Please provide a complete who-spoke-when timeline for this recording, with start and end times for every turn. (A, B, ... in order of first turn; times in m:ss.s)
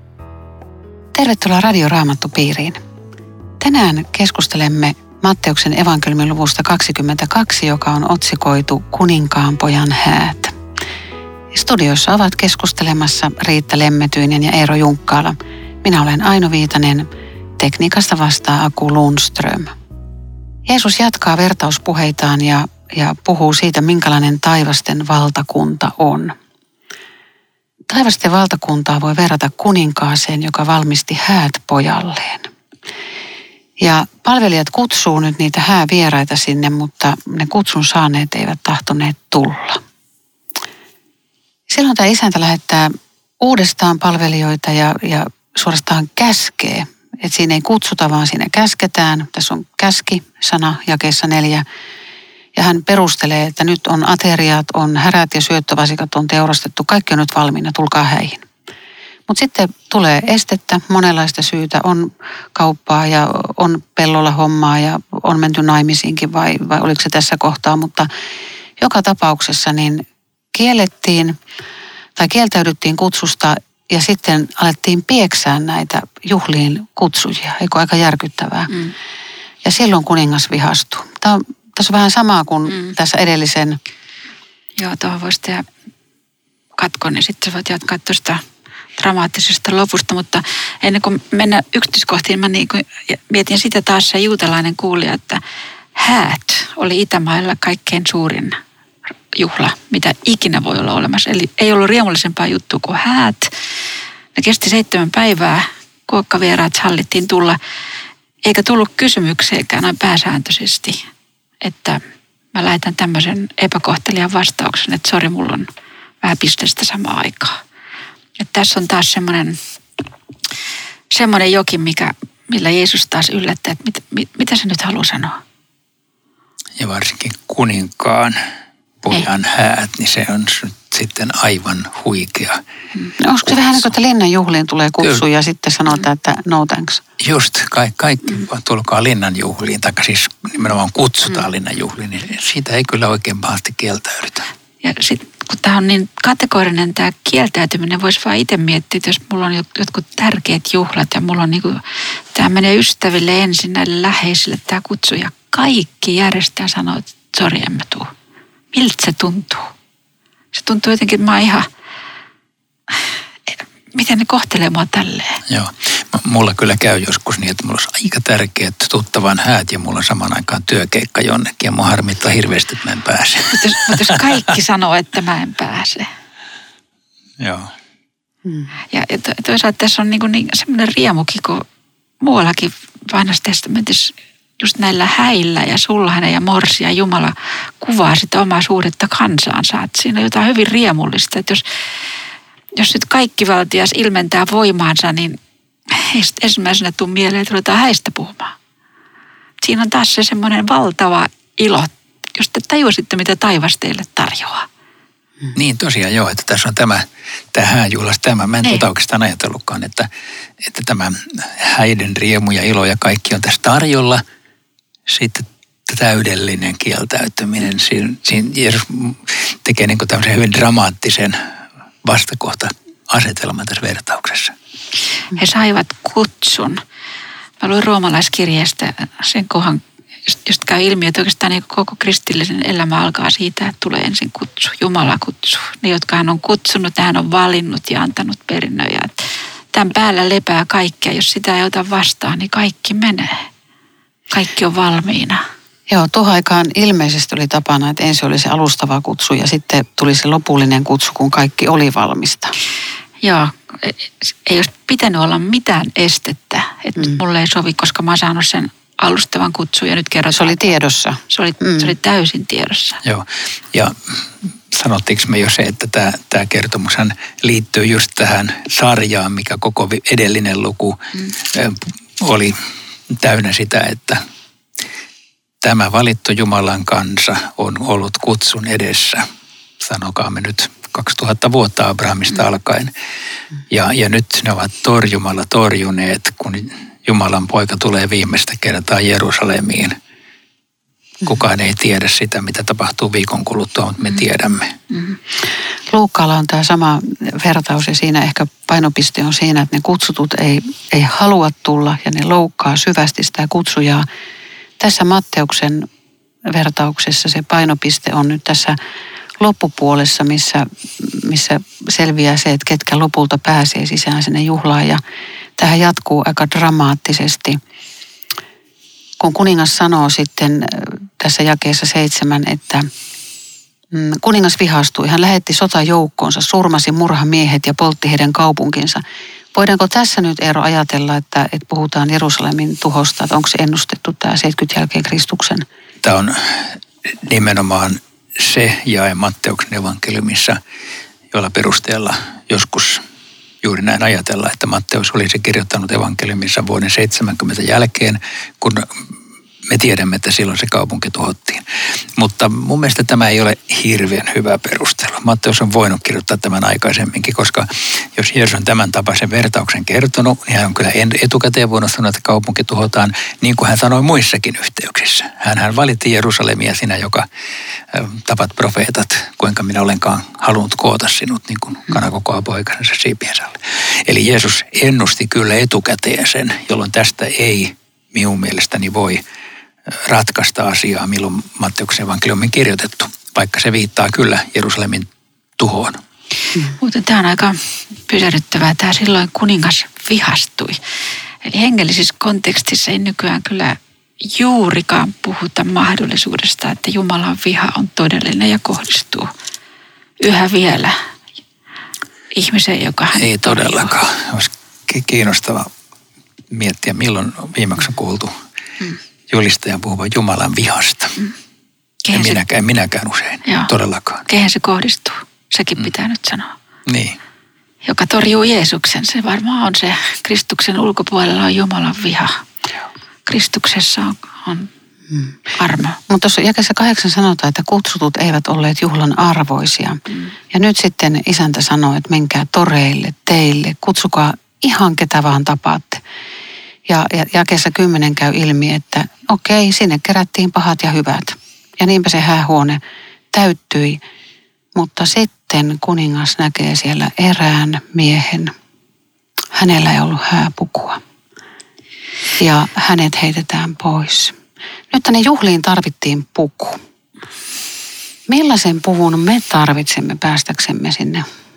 0:01.1-0:02.8 A
0:03.6-0:10.5 A
0:11.5-0:19.7 A
0:20.6-0:26.3 A
0:27.9-0:32.5 A
0:33.8-0:39.8 A
0:41.7-0:51.6 A
0:52.5-0:58.4 A
0:59.3-1:08.1 A
1:08.8-1:10.0 A
1:10.5-1:11.4 A
1:12.2-1:18.7 A
1:18.7-1:18.9 B
1:19.6-1:23.8 A
1:22.7-1:22.9 B
1:24.8-1:25.6 B
1:26.8-1:28.4 B
1:29.0-1:35.4 B
1:35.9-1:38.6 B
1:39.3-1:43.5 B
1:44.3-1:47.6 B
1:48.4-1:51.0 B
1:51.6-1:52.0 B
1:52.5-1:55.7 B
1:56.2-1:57.6 B
1:58.4-1:59.6 B
2:01.1-2:05.4 B
2:06.8-2:08.4 C
2:09.0-2:12.6 C
2:13.2-2:17.0 A
2:13.4-2:13.9 C
2:17.2-2:24.5 C
2:24.8-2:31.8 B
2:32.3-2:38.1 B
2:38.7-2:39.7 B
2:40.5-2:41.7 B
2:43.5-2:45.4 B
2:45.5-2:54.2 C
2:53.5-2:56.1 B
2:57.4-2:57.7 C
2:58.9-3:01.6 B
3:02.2-3:11.6 B
3:12.7-3:15.4 B
3:15.9-3:18.5 B
3:19.6-3:24.7 B
3:25.5-3:30.1 C
3:30.6-3:34.2 C
3:35.1-3:41.4 C
3:42.0-3:44.5 C
3:45.3-3:46.8 B
3:47.6-3:59.2 B
3:59.7-4:03.4 B
4:04.3-4:05.4 B
4:05.9-4:12.5 A
4:13.2-4:20.7 B
4:20.3-4:21.9 A
4:21.3-4:23.0 B
4:23.0-4:32.6 C
4:33.1-4:34.2 C
4:35.6-4:39.2 C
4:39.8-4:42.9 C
4:43.7-4:50.0 C
4:51.2-4:54.7 C
4:55.9-5:04.0 A
5:04.8-5:05.9 A
5:06.5-5:08.8 A
5:09.4-5:15.0 A
5:15.6-5:17.6 A
5:19.2-5:22.9 A
5:23.9-5:29.0 A
5:29.5-5:35.6 A
5:36.0-5:40.6 C
5:41.3-5:43.0 C
5:43.6-5:49.1 C
5:49.7-5:51.6 C
5:52.2-6:07.2 C
6:07.9-6:19.2 C
6:19.9-6:26.0 C
6:26.8-6:30.8 B
6:31.4-6:39.3 B
6:40.2-6:41.0 B
6:42.3-6:43.9 B
6:43.1-6:45.7 C
6:46.5-6:48.3 C
6:49.3-6:51.2 C
6:52.0-6:52.4 B
6:52.1-6:54.2 C
6:53.4-6:53.7 B
6:54.3-6:56.5 B
6:56.8-6:57.2 C
6:57.8-7:02.4 B
7:03.2-7:04.7 B
7:05.6-7:06.0 B
7:06.1-7:16.0 A
7:16.8-7:22.8 A
7:23.3-7:24.0 A
7:24.7-7:28.5 A
7:29.5-7:31.0 A
7:32.4-7:34.4 A
7:34.9-7:36.8 A
7:38.3-7:41.2 A